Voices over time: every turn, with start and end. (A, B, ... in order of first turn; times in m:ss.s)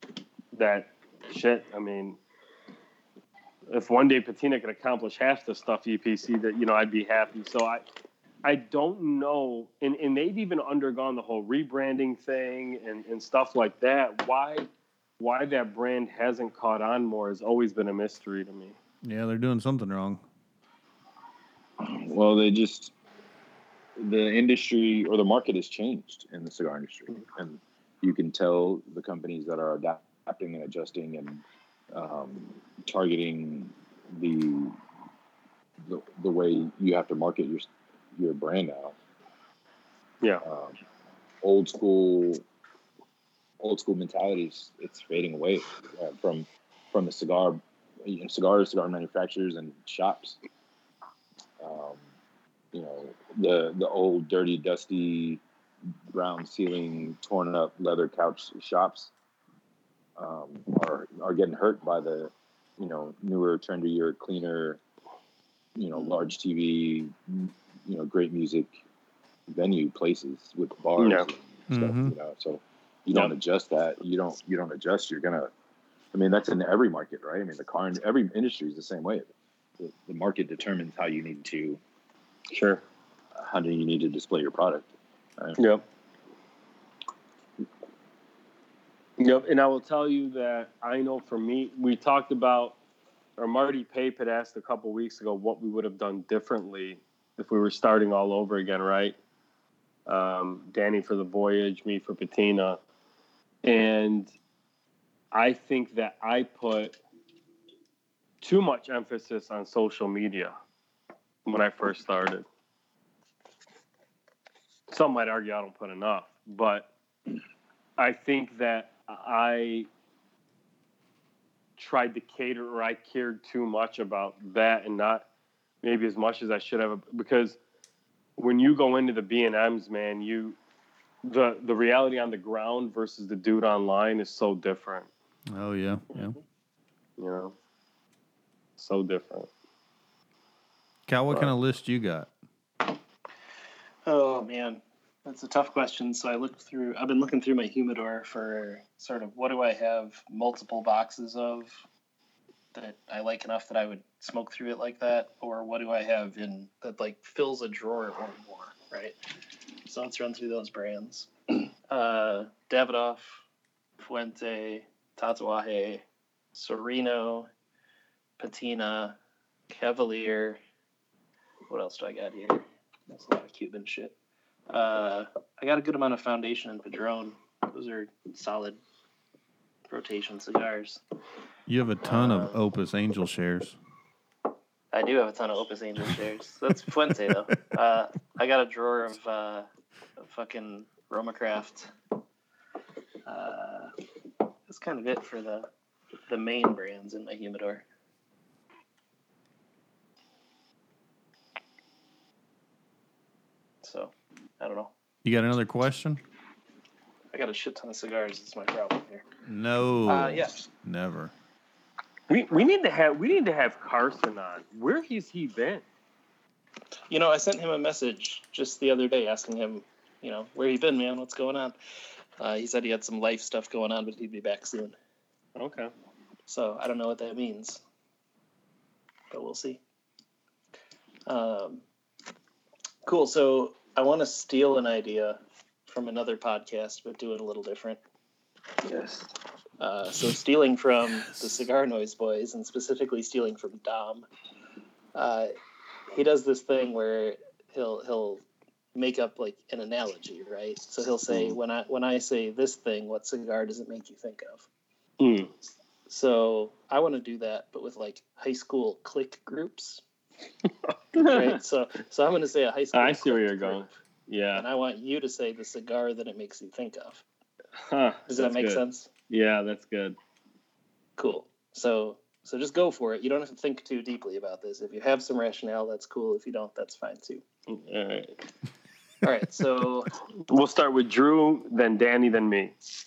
0:00.5-0:02.2 A
0:03.7-0:07.8 A
0:08.4-0:14.7 A
0:15.2-0:18.8 A
0:19.0-0:20.2 B
0:21.8-0:22.9 C
0:24.0-0:34.8 C
0:35.8-0:38.9 C
0:40.4-0:40.8 C
0:41.4-0:42.4 C
0:43.6-0:50.4 C
0:51.6-0:52.0 C
0:52.7-0:55.4 C
0:56.1-0:59.1 C
1:00.2-1:04.8 C
1:05.8-1:08.8 C
1:09.5-1:15.5 C
1:11.0-1:11.3 A
1:11.7-1:12.1 B
1:16.1-1:21.8 C
1:22.5-1:22.8 A
1:23.4-1:25.6 C
1:25.6-1:25.8 A
1:29.2-1:32.8 A
1:33.4-1:39.2 A
1:40.1-1:42.8 A
1:43.6-1:44.3 A
1:45.3-1:47.0 A
1:48.4-1:50.5 A
1:51.4-1:52.4 A
1:54.9-1:56.9 A
1:58.0-1:59.9 A
2:01.8-2:05.3 A
2:05.8-2:07.6 A
2:08.4-2:10.6 A
2:11.2-2:15.1 A
2:15.5-2:16.4 B
2:17.2-2:17.5 A
2:18.8-2:19.5 A
2:21.1-2:22.3 B
2:24.0-2:31.8 D
2:32.7-2:39.2 D
2:39.8-2:43.4 D
2:44.0-2:47.5 D
2:48.4-2:49.2 D
2:49.7-2:50.6 D
2:51.7-2:54.1 D
2:54.7-2:58.8 D
2:59.9-3:01.0 D
3:01.7-3:03.8 B
3:02.0-3:02.6 D
3:04.9-3:11.9 D
3:13.2-3:13.9 D
3:14.7-3:15.7 D
3:16.3-3:17.8 D
3:23.8-3:24.9 D
3:25.2-3:26.2 B
3:27.3-3:29.2 D
3:29.5-3:31.3 B
3:30.1-3:30.6 D
3:32.3-3:35.8 A
3:37.1-3:41.8 D
3:42.4-3:44.9 D
3:45.6-3:45.9 A
3:46.5-3:47.8 D
3:49.3-3:49.8 D
3:51.2-3:51.8 D
3:53.0-3:58.0 D
3:58.8-3:59.3 C
3:59.8-4:04.2 D
4:05.1-4:05.5 D
4:06.1-4:08.4 D
4:08.9-4:14.6 D
4:11.3-4:11.6 C
4:15.2-4:15.5 A
4:16.1-4:20.0 D
4:20.9-4:21.5 A
4:21.2-4:21.6 C
4:21.2-4:23.9 D
4:22.9-4:24.6 A
4:24.5-4:27.2 D
4:27.9-4:30.2 A
4:28.3-4:29.1 D
4:31.2-4:37.4 D
4:37.7-4:38.3 A
4:39.2-4:40.1 D
4:40.5-4:42.7 A